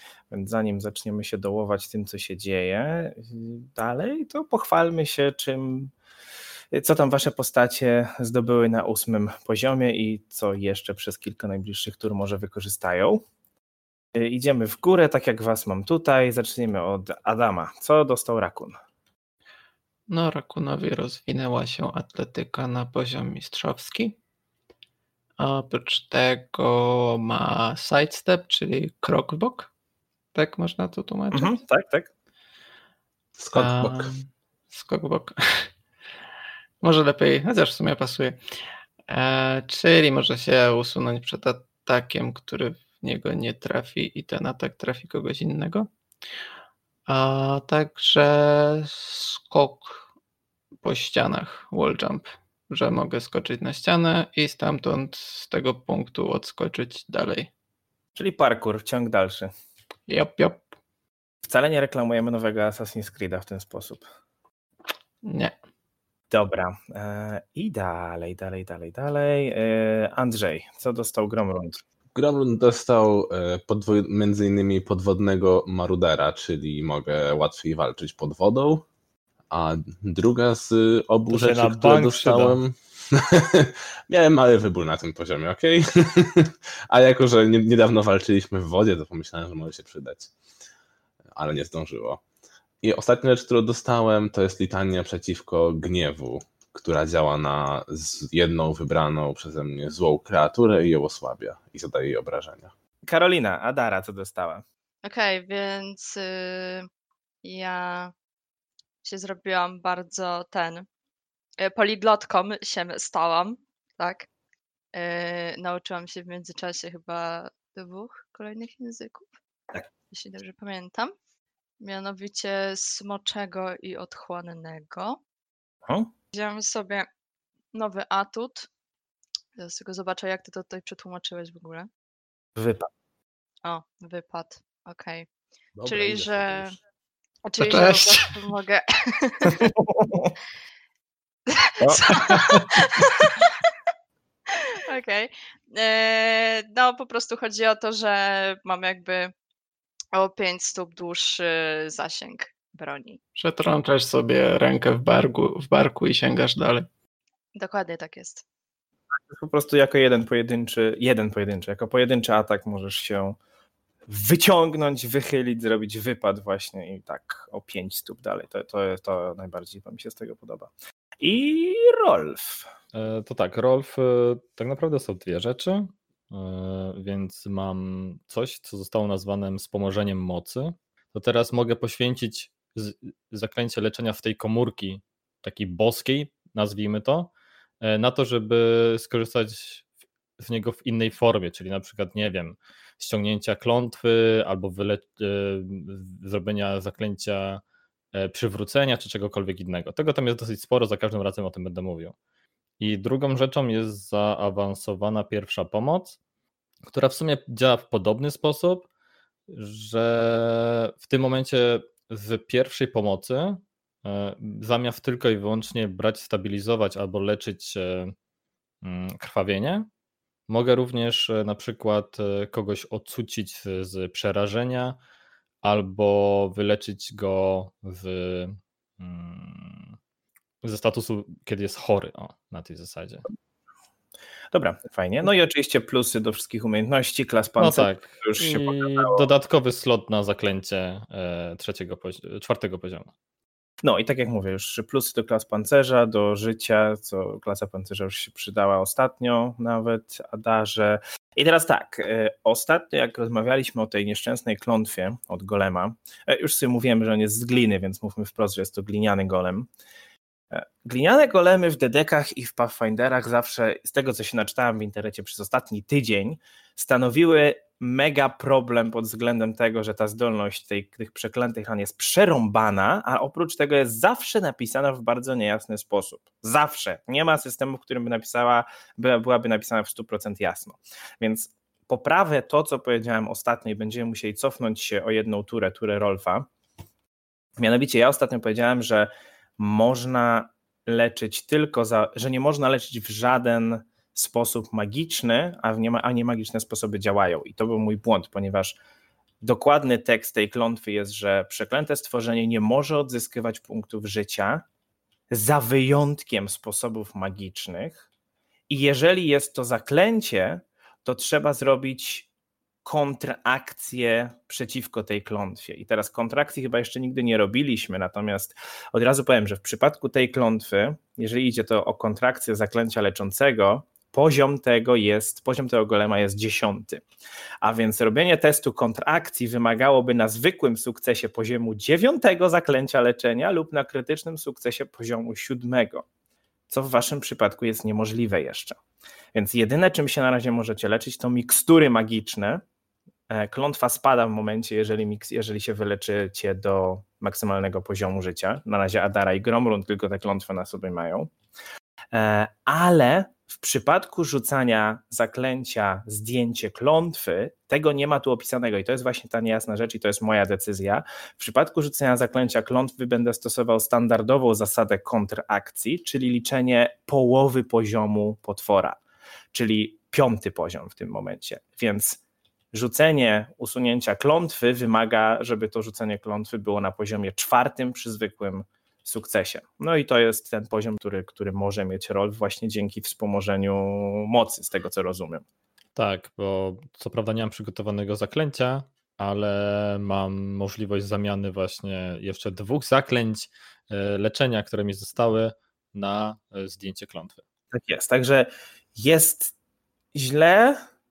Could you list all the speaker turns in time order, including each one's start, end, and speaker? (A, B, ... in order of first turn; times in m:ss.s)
0:00.3-0:05.9 A
0:06.7-0:13.2 A
0:14.2-0:18.8 A
0:20.1-0:24.2 B
0:25.4-0:29.7 B
0:30.3-0:31.5 B
0:31.3-0:32.1 A
0:33.4-0:34.1 C
0:33.6-0:35.7 B
0:36.8-0:38.4 B
0:39.1-0:45.9 B
0:47.1-0:50.0 B
0:50.8-0:57.5 B
0:58.2-0:59.5 A
1:00.1-1:00.7 B
1:01.4-1:04.0 A
1:05.2-1:05.6 B
1:06.3-1:11.8 A
1:12.2-1:18.8 C
1:19.5-1:30.3 C
1:21.3-1:22.6 D
1:31.3-1:32.2 C
1:32.8-1:42.7 C
1:43.0-1:44.6 A
1:45.0-1:46.9 E
1:47.4-1:48.1 E
1:49.0-1:50.9 E
1:51.6-1:54.3 E
1:54.9-1:59.3 E
2:00.1-2:01.1 E
2:01.8-2:05.2 E
2:06.3-2:07.1 E
2:07.7-2:08.7 E
2:09.6-2:11.9 E
2:12.6-2:12.9 A
2:13.6-2:15.3 E
2:15.8-2:16.8 C
2:15.9-2:16.8 E
2:17.4-2:19.7 E
2:17.6-2:18.3 B
2:19.6-2:20.3 A
2:21.5-2:23.5 E
2:21.8-2:22.6 C
2:24.9-2:29.3 E
2:30.1-2:33.2 E
2:33.4-2:36.9 B
2:37.6-2:38.4 E
2:39.3-2:43.4 A
2:44.1-2:50.7 A
2:51.2-2:52.6 A
2:52.9-3:07.3 D
3:07.8-3:09.8 D
3:10.4-3:17.6 D
3:18.1-3:22.2 D
3:22.8-3:26.2 D
3:26.9-3:28.9 D
3:29.5-3:38.1 D
3:38.8-3:39.9 D
3:40.5-3:45.0 D
3:45.6-3:50.0 D
3:50.6-3:53.2 D
3:54.5-3:59.3 A
3:57.6-4:03.1 D
4:03.8-4:19.7 A
4:20.5-4:46.5 A
4:47.6-4:58.8 A
4:59.4-5:04.6 A
5:05.3-5:08.0 A
5:08.7-5:12.3 A
5:12.8-5:27.0 A
5:27.6-5:36.0 A
5:36.7-5:38.8 A
5:39.4-5:42.6 A
5:43.3-5:51.3 A
5:52.1-6:09.0 A
6:09.5-6:12.2 A
6:12.7-6:25.4 A
6:26.0-6:37.4 D
6:37.7-6:39.5 A
6:40.1-6:40.8 A